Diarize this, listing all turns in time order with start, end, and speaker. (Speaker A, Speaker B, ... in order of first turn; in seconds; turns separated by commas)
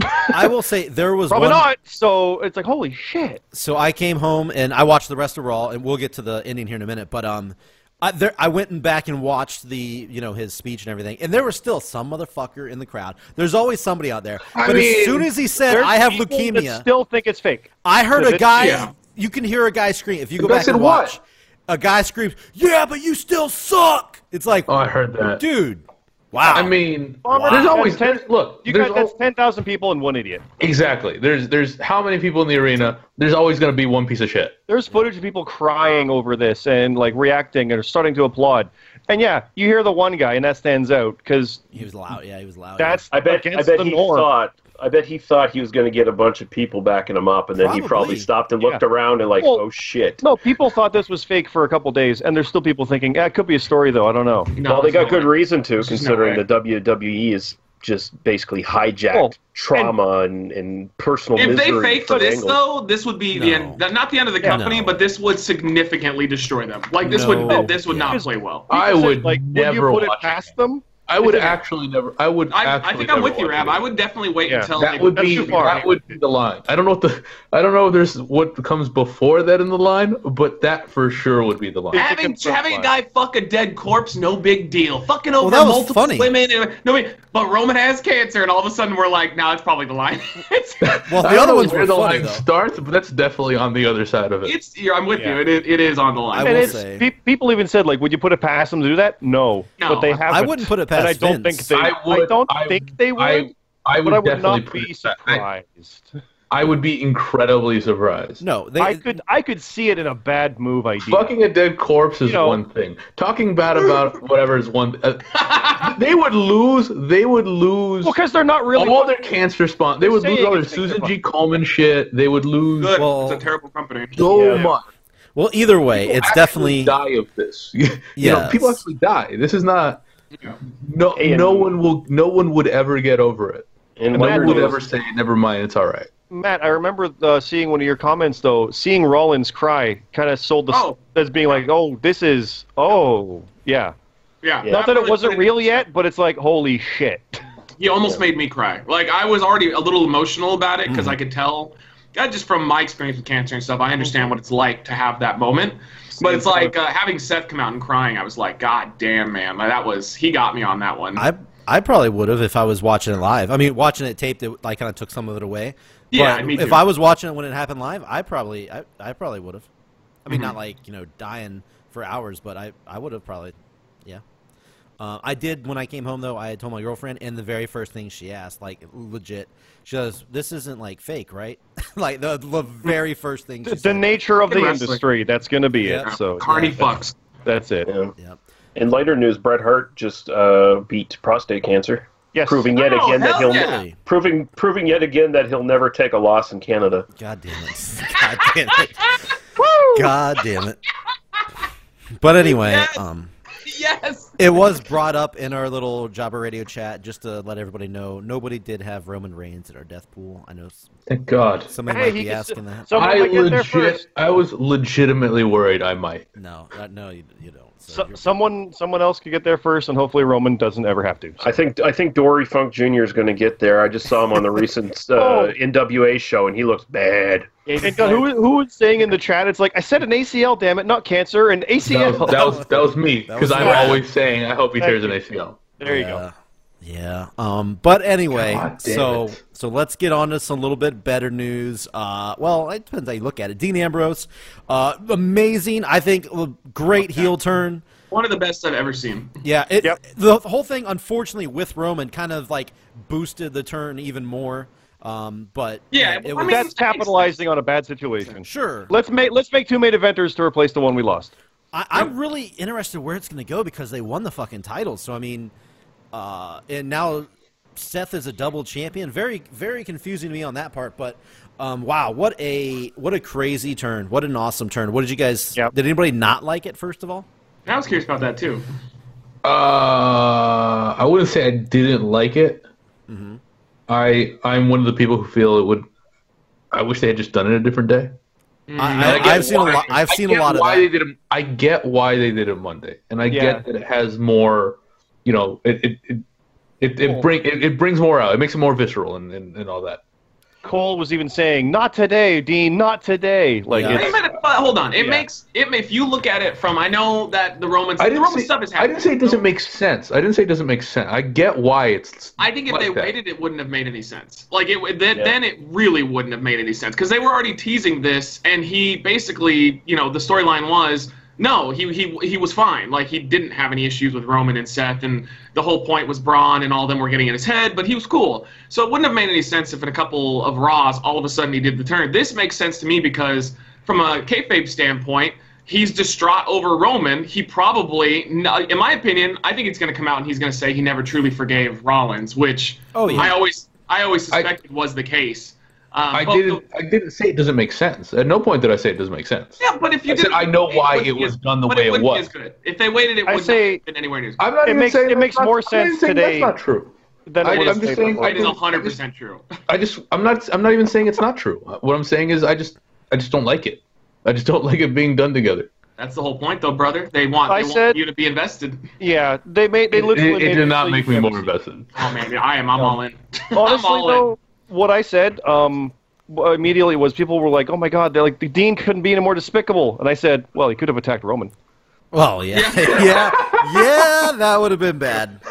Speaker A: 0.3-1.7, Speaker B: 1.3-3.4, Speaker A: 3.5-16.9, Speaker C: 14.5-15.3, Speaker B: 15.7-18.8, Speaker A: 17.8-24.7, Speaker D: 18.6-18.9, Speaker C: 20.4-21.1, Speaker C: 24.7-25.4, Speaker A: 25.2-26.8, Speaker C: 26.5-29.1, Speaker B: 27.2-30.4, Speaker A: 27.3-27.7, Speaker C: 30.6-34.6, Speaker B: 34.7-41.7, Speaker A: 41.7-43.0, Speaker B: 42.8-44.3, Speaker E: 43.1-50.2, Speaker A: 47.6-48.3, Speaker B: 49.4-49.6, Speaker B: 50.2-54.5, Speaker D: 54.5-56.4, Speaker E: 54.6-62.6, Speaker B: 59.1-59.9, Speaker D: 61.4-68.7, Speaker A: 63.3-63.8, Speaker A: 64.5-65.0, Speaker A: 67.0-68.2, Speaker B: 67.4-71.6, Speaker C: 68.7-70.5, Speaker C: 71.1-73.8, Speaker D: 72.5-76.0, Speaker B: 74.5-75.9, Speaker C: 74.8-82.0, Speaker B: 81.9-82.9, Speaker D: 81.9-91.0, Speaker A: 85.4-86.3, Speaker C: 90.8-94.5, Speaker A: 91.1-92.4, Speaker D: 94.4-96.8, Speaker A: 96.3-97.0, Speaker B: 96.4-103.5, Speaker D: 99.8-100.2, Speaker A: 100.3-101.7, Speaker C: 101.7-105.4, Speaker B: 104.0-106.1, Speaker C: 106.5-108.4, Speaker A: 108.4-109.0, Speaker B: 108.8-111.3, Speaker C: 111.0-115.2, Speaker B: 112.2-112.6, Speaker D: 115.3-115.9, Speaker C: 115.8-118.2, Speaker B: 118.0-119.1, Speaker C: 118.7-122.9, Speaker B: 120.0-121.1, Speaker D: 122.8-124.2, Speaker A: 122.9-123.4, Speaker C: 124.2-124.8, Speaker E: 124.3-124.7, Speaker A: 125.3-126.9, Speaker C: 125.9-130.0, Speaker A: 128.2-128.8, Speaker C: 130.6-136.1, Speaker E: 131.2-131.7, Speaker E: 134.0-134.8, Speaker B: 134.1-134.8, Speaker B: 136.3-143.9, Speaker D: 140.7-141.0, Speaker D: 144.4-145.8, Speaker B: 144.7-147.4, Speaker D: 147.8-161.2, Speaker A: 150.9-151.2, Speaker B: 156.2-156.7, Speaker A: 161.2-169.7, Speaker D: 166.1-166.8, Speaker A: 170.2-174.2, Speaker A: 175.0-184.2, Speaker B: 183.6-186.9, Speaker D: 184.5-185.0, Speaker A: 185.8-186.1, Speaker D: 186.0-187.1, Speaker B: 187.4-187.9, Speaker E: 187.9-188.1, Speaker E: 188.8-197.1, Speaker B: 192.3-192.7, Speaker D: 192.7-193.8, Speaker A: 193.3-193.9, Speaker A: 197.2-199.2, Speaker D: 198.2-199.1, Speaker A: 199.9-200.8, Speaker A: 202.2-203.3, Speaker D: 202.4-203.0, Speaker D: 203.6-204.6, Speaker A: 204.4-210.9, Speaker C: 211.1-211.7, Speaker A: 211.7-212.9, Speaker B: 211.9-214.0, Speaker C: 212.9-216.3, Speaker A: 216.3-218.3, Speaker B: 217.9-221.4, Speaker E: 221.4-227.7, Speaker B: 225.2-225.5, Speaker D: 227.7-228.3, Speaker B: 227.8-232.6, Speaker C: 231.8-235.6, Speaker A: 232.2-234.0, Speaker B: 233.6-234.0, Speaker B: 234.8-235.2, Speaker B: 235.8-236.2, Speaker A: 235.8-247.8, Speaker C: 238.3-239.4, Speaker D: 248.1-249.3, Speaker A: 249.4-256.6, Speaker D: 255.9-257.4, Speaker B: 256.4-261.3, Speaker A: 258.4-258.9, Speaker A: 261.7-265.5, Speaker A: 266.1-277.3, Speaker D: 277.6-278.6, Speaker C: 279.4-282.6, Speaker A: 283.1-283.4, Speaker C: 283.9-285.9, Speaker C: 286.7-288.1, Speaker D: 288.7-289.9, Speaker A: 288.8-290.9, Speaker C: 288.9-296.2, Speaker B: 293.3-293.6, Speaker C: 296.8-300.0, Speaker B: 300.6-304.1, Speaker A: 303.7-304.1, Speaker D: 303.9-309.4, Speaker B: 305.0-305.2, Speaker C: 308.0-313.1, Speaker D: 312.4-346.6, Speaker A: 342.9-343.4, Speaker C: 346.1-352.3, Speaker D: 349.6-354.4, Speaker B: 353.2-353.8, Speaker C: 354.4-356.9, Speaker B: 354.6-356.5, Speaker B: 357.3-358.5, Speaker C: 357.4-359.0, Speaker D: 357.5-359.5, Speaker C: 359.7-365.7, Speaker D: 366.0-368.9, Speaker B: 367.5-368.0, Speaker B: 369.0-371.5, Speaker C: 369.9-372.1, Speaker D: 371.9-374.3, Speaker B: 373.5-381.5, Speaker A: 382.1-385.4, Speaker D: 382.5-384.1